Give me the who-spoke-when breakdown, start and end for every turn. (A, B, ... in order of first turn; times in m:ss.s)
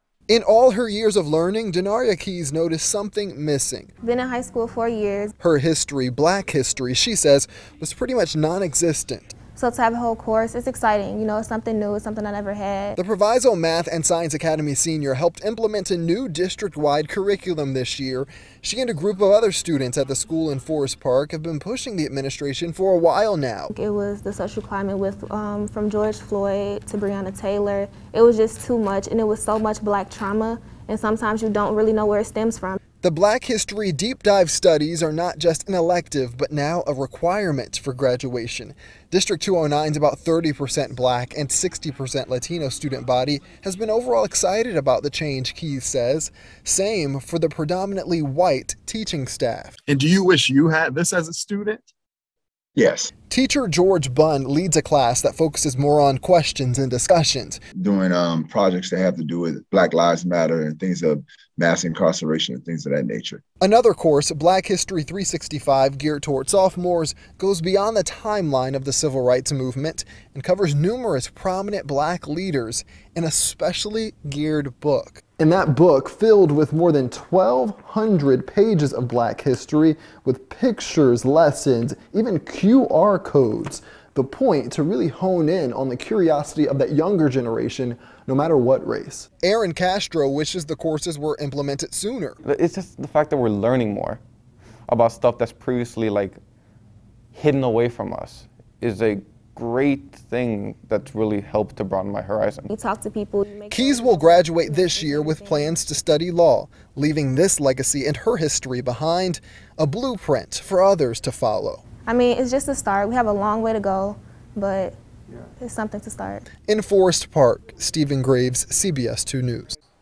0:00.3-0:03.9 A
0:04.0-0:05.3 B
0:05.4-0:09.4 A
0:09.6-0:13.0 B
0:13.0-0:23.7 A
0:23.7-0:32.8 B
0:33.0-0:49.8 A
0:49.9-0:51.8 C
0:52.8-0:53.1 D
0:53.3-0:57.6 A
0:57.8-1:03.4 D
1:03.6-1:32.4 A
1:32.4-1:34.2 E
1:34.9-1:36.4 E
1:37.3-1:42.7 E
1:42.7-1:45.8 B
1:43.7-1:51.8 A
1:52.1-1:55.0 B
1:55.6-1:56.5 B
1:56.7-1:59.7 A